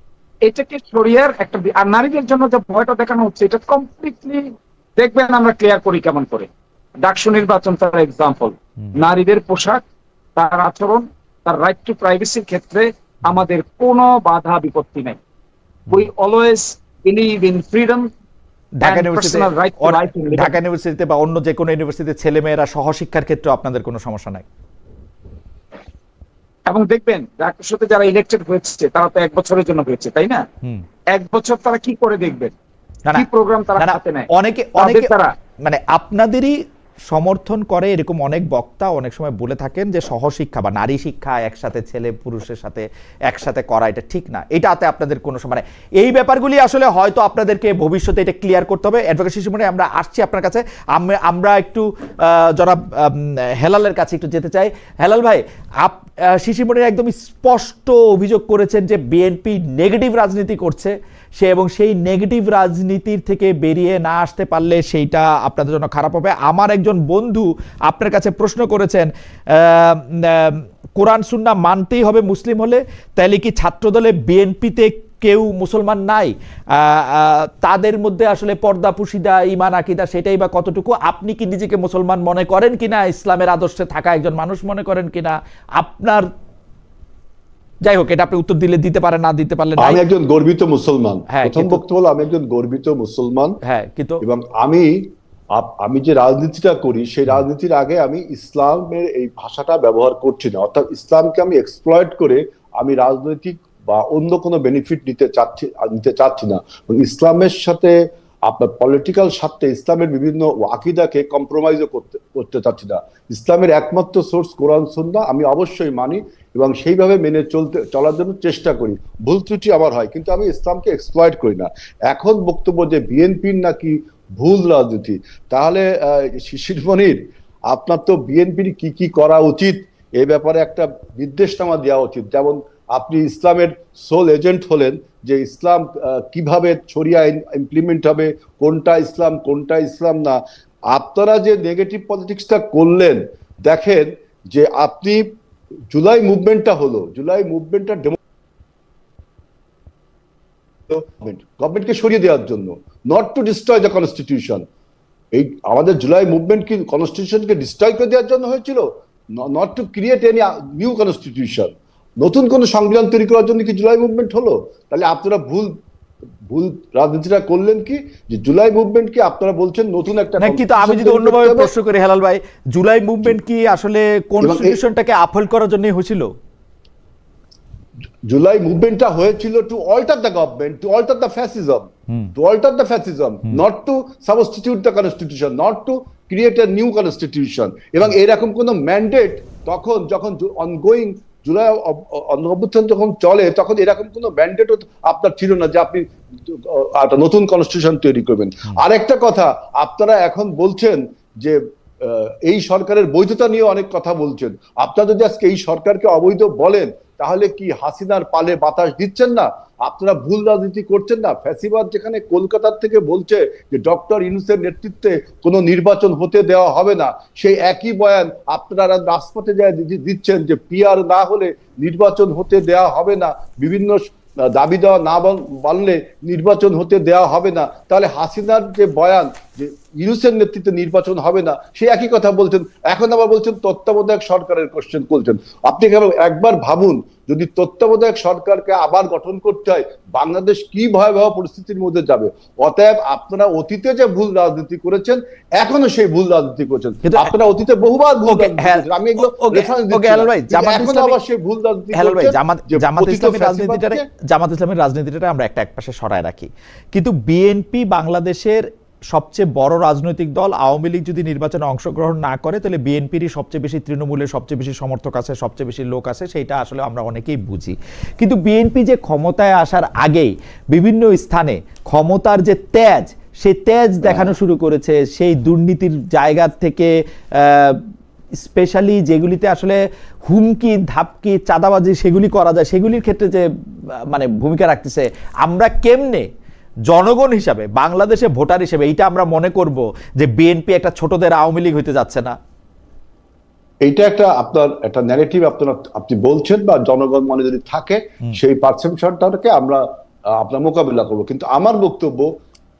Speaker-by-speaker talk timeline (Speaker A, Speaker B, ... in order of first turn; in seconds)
Speaker A: 0.5-6.5, 7.0-9.8, 10.4-15.2, 15.9-18.1, 18.8-20.6, 26.7-30.4, 31.1-32.5, 33.1-34.3, 34.8-35.3
Speaker B: 18.8-24.4, 33.8-35.1, 35.6-36.5, 37.1-86.3, 87.8-90.0, 91.3-91.8, 93.6-94.2, 170.4-176.3, 247.0-247.3, 248.3-251.2, 251.9-277.8, 278.4-283.4, 284.1-286.3, 286.9-292.4
Speaker C: 89.8-93.6, 94.2-140.4, 140.9-145.3, 145.9-148.2, 150.9-154.6, 155.3-165.7, 166.5-171.7, 174.4-174.8, 178.3-254.0, 274.1-274.3, 293.8-299.8, 300.4-302.3